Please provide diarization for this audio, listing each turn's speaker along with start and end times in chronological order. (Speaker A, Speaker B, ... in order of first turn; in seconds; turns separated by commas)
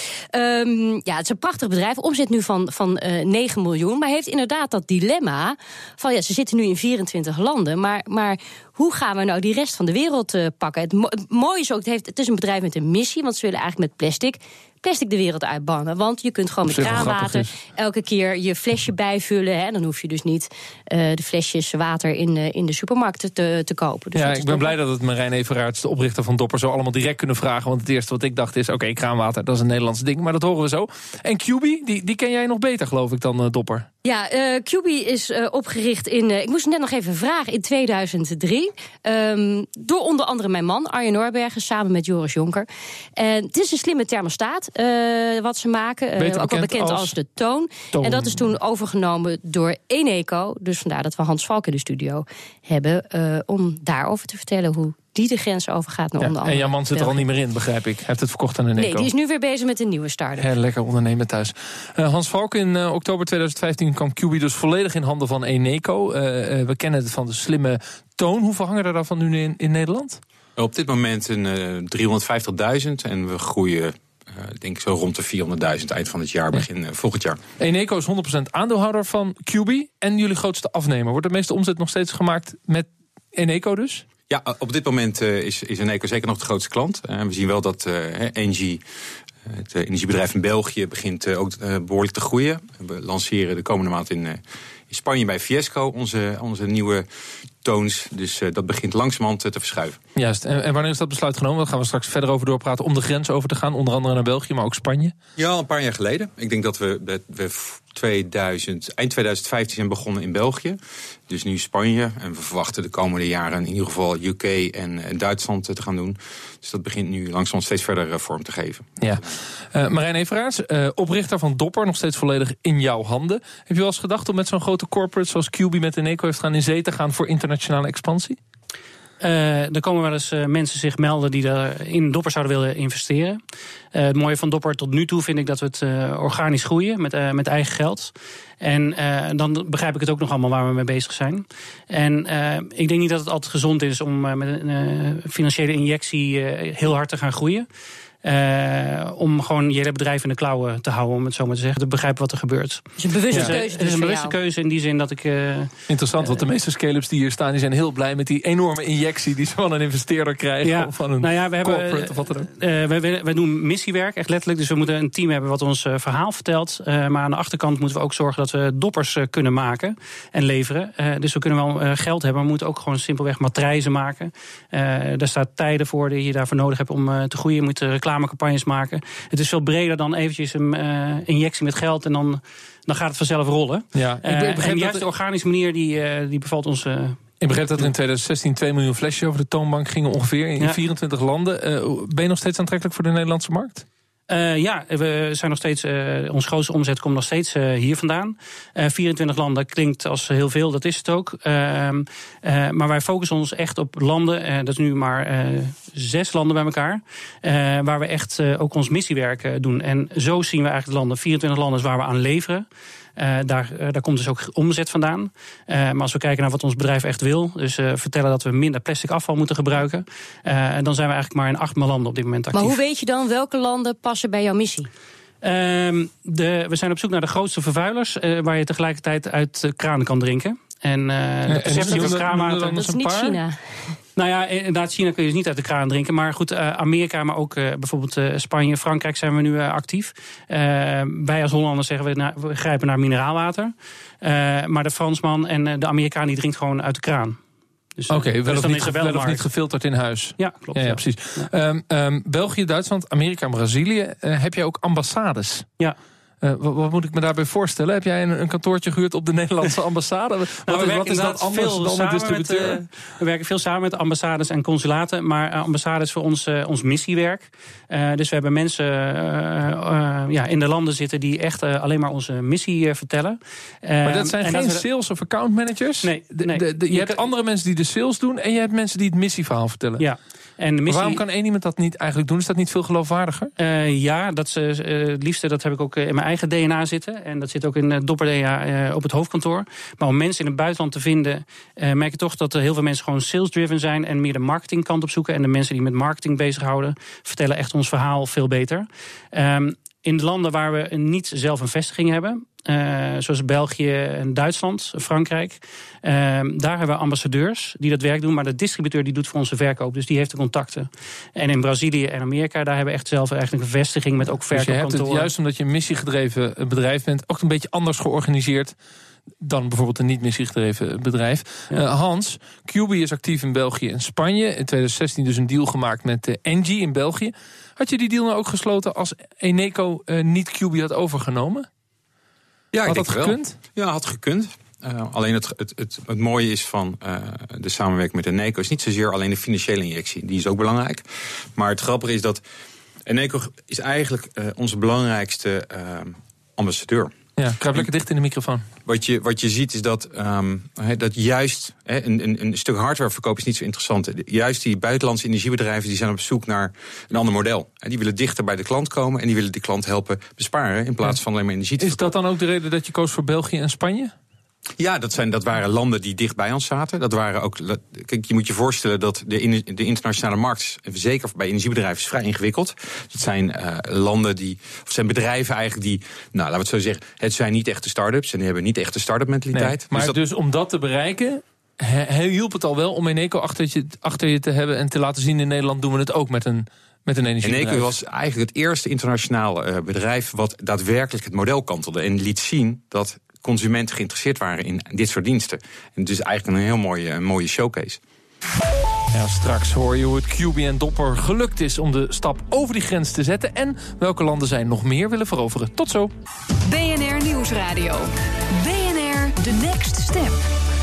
Speaker A: 0.3-24.7, Speaker B: 16.7-17.6, Speaker B: 24.1-33.9, Speaker A: 34.0-57.2, Speaker B: 46.2-47.1, Speaker B: 47.9-48.4, Speaker B: 56.2-59.1, Speaker A: 58.8-60.5, Speaker B: 60.4-70.2, Speaker C: 70.6-77.4, Speaker B: 77.6-84.0, Speaker C: 84.3-88.8, Speaker C: 89.5-97.1, Speaker C: 97.6-100.0, Speaker B: 100.2-105.2, Speaker C: 105.4-119.1, Speaker B: 119.0-128.4, Speaker D: 129.2-133.4, Speaker D: 133.9-147.7, Speaker D: 148.2-155.7, Speaker A: 153.0-154.4, Speaker B: 153.3-153.6, Speaker B: 155.9-162.5, Speaker D: 160.6-187.2, Speaker B: 183.9-185.1, Speaker B: 187.4-193.8, Speaker D: 194.3-212.7, Speaker D: 213.2-222.8, Speaker A: 222.5-224.9, Speaker D: 225.4-232.8, Speaker B: 231.5-233.4, Speaker A: 231.7-234.0, Speaker D: 234.2-247.4, Speaker D: 248.0-249.4, Speaker B: 248.1-255.7, Speaker D: 250.4-251.5, Speaker B: 256.4-262.9, Speaker D: 260.7-274.9, Speaker B: 274.0-280.1, Speaker D: 276.0-277.2, Speaker D: 280.0-281.2, Speaker B: 280.9-283.5, Speaker D: 283.6-315.3, Speaker B: 314.5-318.8, Speaker B: 319.4-331.7, Speaker C: 332.7-341.0, Speaker B: 332.9-333.6, Speaker C: 341.6-342.4, Speaker C: 343.1-347.1, Speaker B: 347.4-348.7, Speaker C: 348.9-362.1, Speaker B: 361.8-364.1, Speaker C: 364.8-380.2, Speaker B: 379.5-387.9, Speaker C: 387.4-398.0, Speaker B: 399.1-406.1, Speaker E: 406.7-410.4